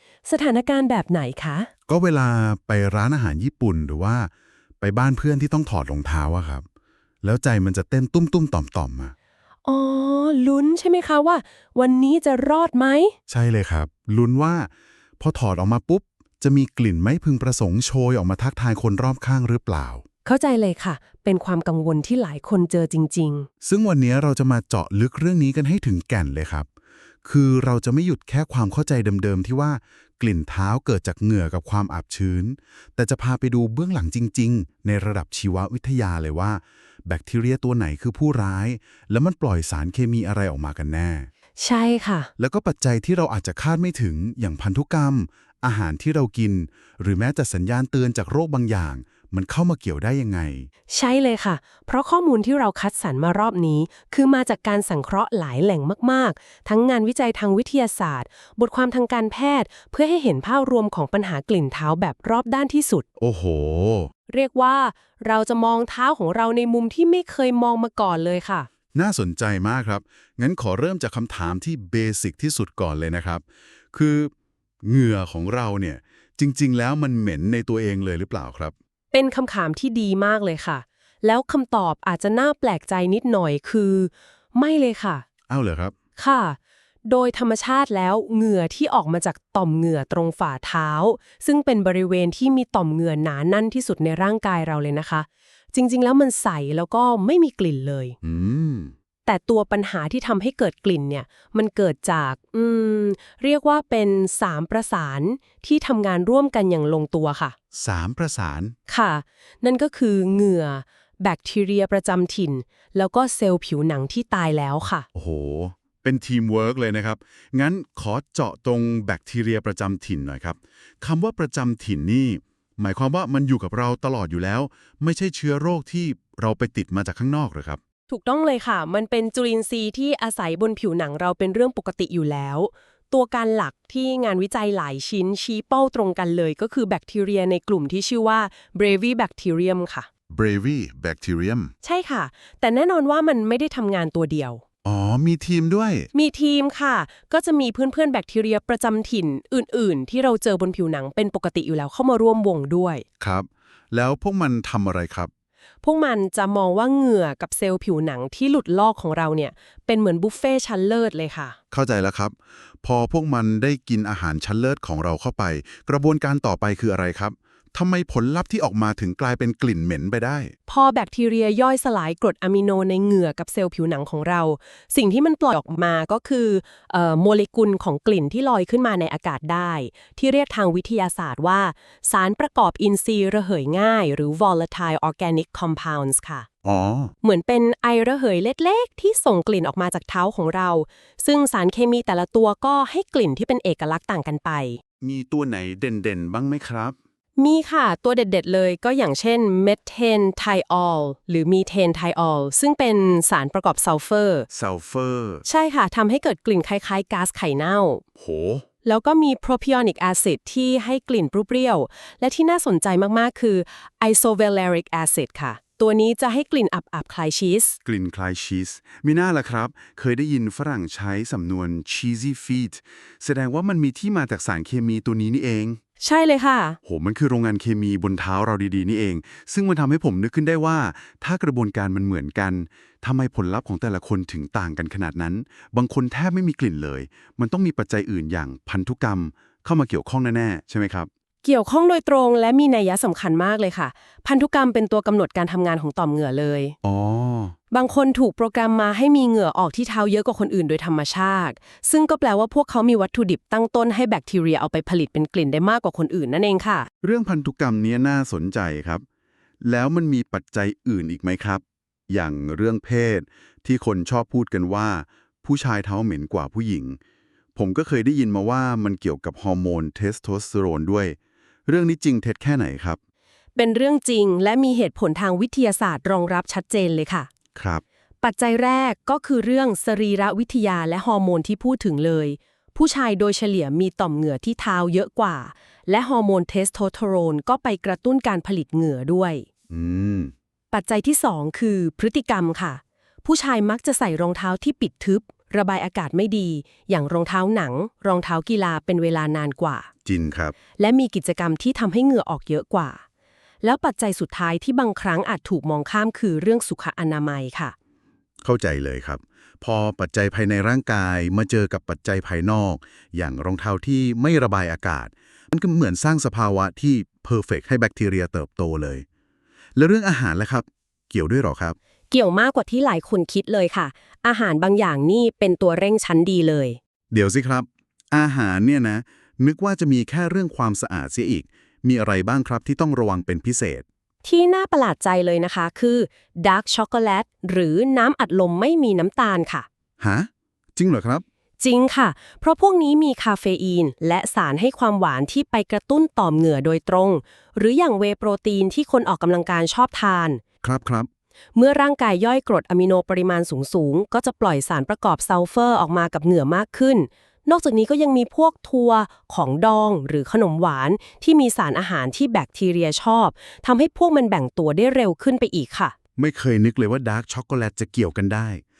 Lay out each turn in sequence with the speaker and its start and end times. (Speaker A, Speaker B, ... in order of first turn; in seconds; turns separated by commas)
Speaker A: 0.2-1.7, Speaker B: 1.9-4.3, Speaker B: 4.8-6.6, Speaker B: 7.2-9.1, Speaker A: 9.6-13.1, Speaker B: 13.3-20.0, Speaker A: 20.2-23.5, Speaker B: 23.6-26.7, Speaker B: 27.2-41.3, Speaker A: 41.6-42.3, Speaker B: 42.4-50.7, Speaker A: 50.9-63.0, Speaker B: 63.2-64.1, Speaker A: 64.3-68.7, Speaker B: 68.9-74.3, Speaker B: 74.8-78.7, Speaker A: 79.1-85.2, Speaker B: 85.5-85.9, Speaker A: 86.2-98.2, Speaker B: 98.2-98.9, Speaker A: 99.2-107.5, Speaker B: 107.7-108.7, Speaker A: 108.9-115.1, Speaker B: 115.1-127.8, Speaker A: 128.1-140.1, Speaker B: 140.3-141.7, Speaker A: 141.8-144.6, Speaker B: 144.8-146.1, Speaker A: 146.1-153.0, Speaker B: 153.2-155.3, Speaker A: 155.8-161.6, Speaker B: 161.7-170.5, Speaker A: 170.7-186.5, Speaker B: 186.6-187.1, Speaker A: 187.2-194.8, Speaker B: 195.0-196.9, Speaker A: 197.4-204.5, Speaker B: 204.5-205.4, Speaker A: 205.4-208.0, Speaker B: 208.2-208.6, Speaker A: 208.8-217.8, Speaker B: 217.8-225.8, Speaker A: 226.0-226.8, Speaker B: 226.8-241.1, Speaker A: 241.4-246.7, Speaker B: 246.8-247.5, Speaker A: 247.7-256.9, Speaker B: 257.0-259.0, Speaker B: 259.6-267.0, Speaker B: 267.6-273.0, Speaker A: 273.6-277.3, Speaker B: 277.6-277.8, Speaker A: 278.2-289.4, Speaker B: 289.7-290.3, Speaker A: 290.7-299.9, Speaker B: 300.0-300.5, Speaker A: 300.8-303.0, Speaker A: 303.6-307.7, Speaker B: 308.4-319.0, Speaker B: 319.8-321.8, Speaker A: 322.1-326.8, Speaker B: 327.1-333.8, Speaker A: 334.2-339.7, Speaker B: 340.0-341.2, Speaker A: 341.6-350.4, Speaker B: 350.6-351.1, Speaker A: 351.5-365.9, Speaker B: 366.2-368.6